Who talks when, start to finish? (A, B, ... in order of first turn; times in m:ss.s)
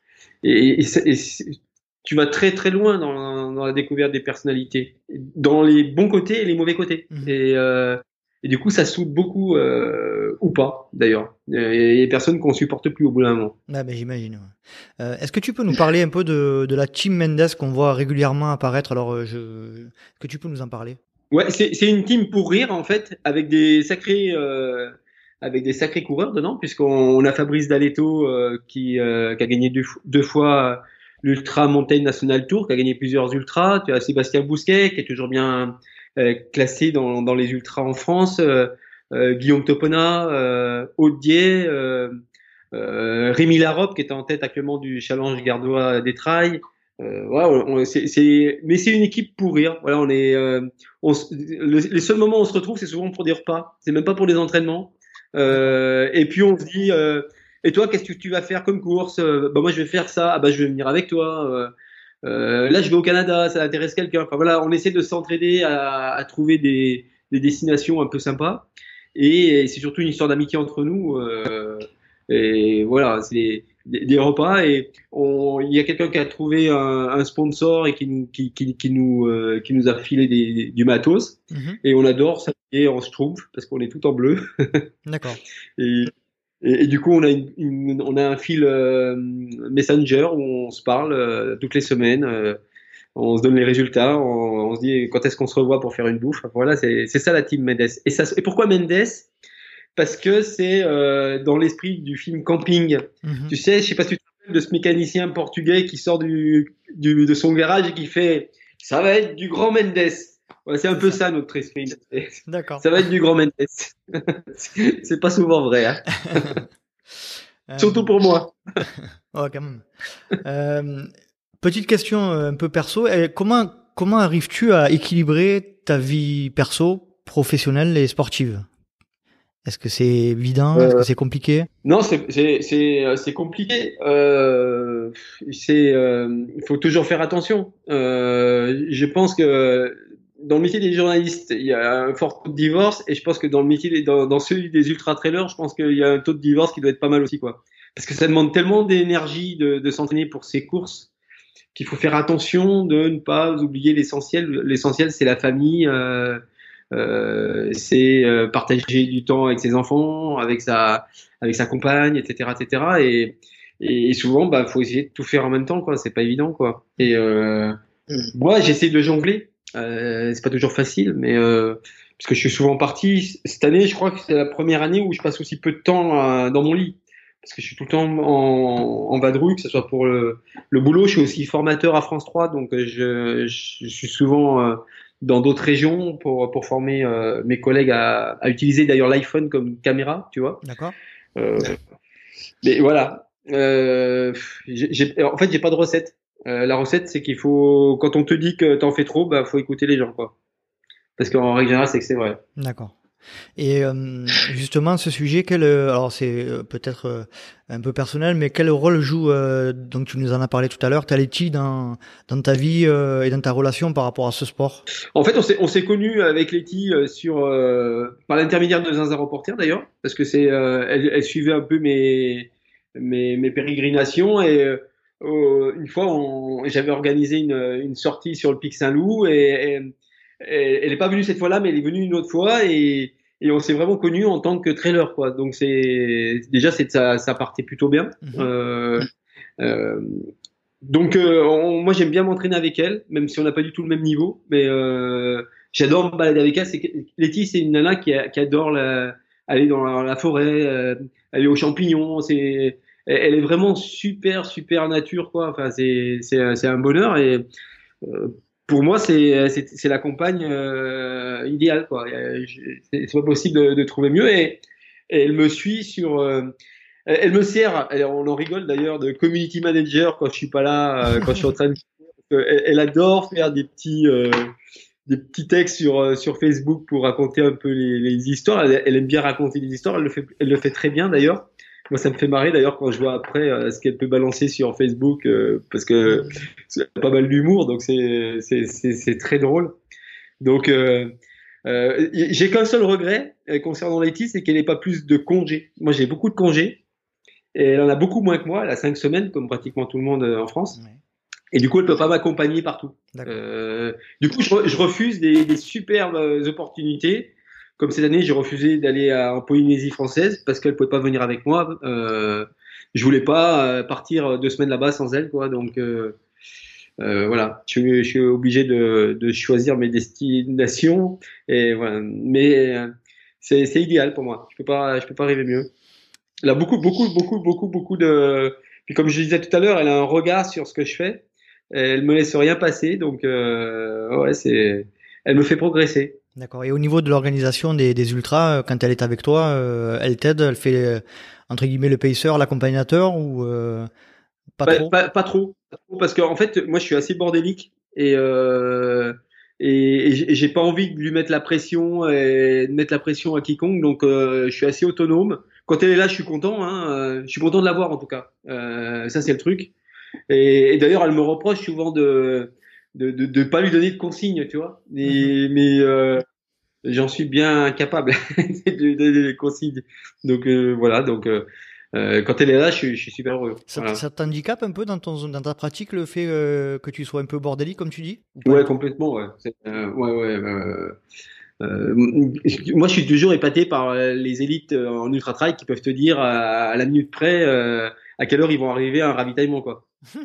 0:00.4-0:13.5 A
0:13.7-0:21.0 B
0:21.3-0:42.1 A
0:42.7-1:01.7 A
0:55.5-0:55.7 B
1:02.2-1:24.8 A
1:21.5-1:21.8 B
1:25.0-1:25.4 B
1:25.8-1:32.6 A
1:33.1-1:39.3 A
1:40.0-1:56.6 A
1:43.2-1:43.5 B
1:52.5-1:52.8 B
1:56.2-1:56.6 B
1:57.7-1:58.1 B
1:57.8-1:58.6 A
1:58.9-1:59.9 B
2:00.4-2:08.7 B
2:09.6-2:11.7 B
2:10.8-2:11.0 A
2:11.8-2:31.1 A
2:31.7-2:36.4 A
2:36.9-3:10.6 A
3:10.6-3:10.9 B
3:11.4-3:11.8 A
3:12.6-3:20.3 A
3:21.2-3:22.4 A
3:22.6-3:22.9 B
3:23.6-3:34.8 B
3:35.1-4:00.3 A
3:58.2-3:58.5 B
4:00.8-4:17.4 A
4:18.0-4:26.5 A
4:27.1-4:34.5 A
4:35.1-4:49.7 A
4:50.4-4:51.1 A
4:51.6-4:56.8 A
4:57.5-5:00.8 A
5:01.5-5:16.2 A
5:17.0-5:22.9 A
5:23.4-5:25.7 A
5:26.4-5:36.2 A
5:36.4-5:43.9 B
5:44.6-5:44.9 B
5:44.6-5:59.7 A
6:00.3-6:06.2 A
6:05.0-6:05.3 B
6:06.8-6:14.0 A
6:13.7-6:18.7 B
6:18.4-6:21.0 A
6:21.6-6:29.8 A